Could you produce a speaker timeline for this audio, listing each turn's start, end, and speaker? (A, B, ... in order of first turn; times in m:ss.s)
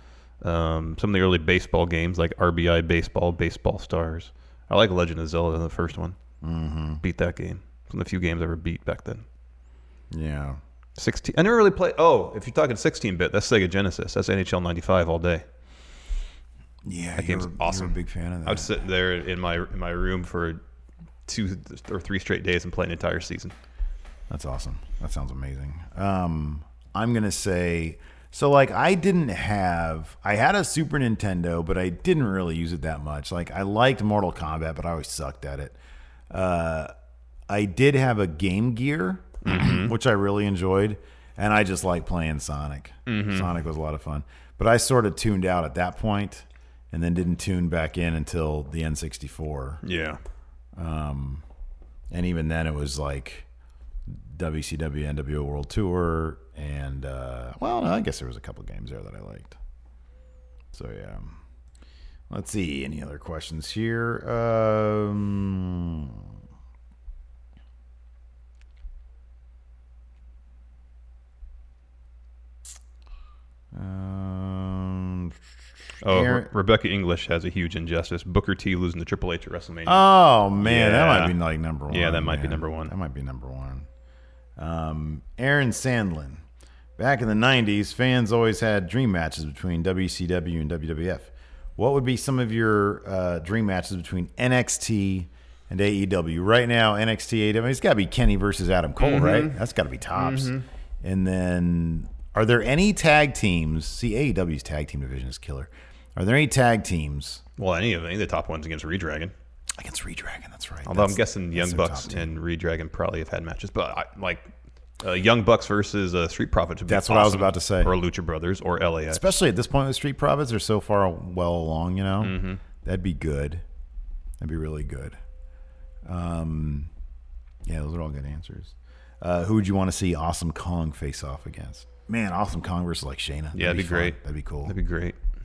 0:00.4-0:06.2 A
0:06.4-0:07.0 B
0:07.0-0:09.2 A
0:10.1-0:10.6 B
0:11.0-0:15.4 A
0:16.9-0:18.7 B
0:17.2-0:20.6 A
0:21.2-0:23.5 A
0:24.3-0:35.8 B
0:36.3-0:36.9 B
0:37.5-0:49.8 B
0:39.4-0:39.9 A
0:43.1-0:43.5 A
0:49.8-0:50.2 A
0:50.8-0:51.4 B
0:52.1-0:53.5 B
0:54.1-0:59.6 B
1:00.7-1:01.4 B
1:02.3-1:06.3 B
1:13.7-1:15.4 B
1:16.0-1:16.5 B
1:16.0-1:21.4 A
1:19.8-1:23.9 B
1:21.9-1:22.9 A
1:24.6-1:26.4 B
1:27.0-1:47.4 B
1:39.0-1:39.6 A
1:40.1-1:40.6 A
1:47.6-1:49.3 A
1:49.8-1:52.3 B
1:50.8-1:54.4 A
1:55.0-1:59.2 A
1:56.9-1:57.9 B
1:59.1-2:03.6 B
2:02.2-2:02.6 A
2:04.4-2:05.2 B
2:06.0-2:06.9 B
2:07.6-2:14.7 B
2:13.6-2:15.2 A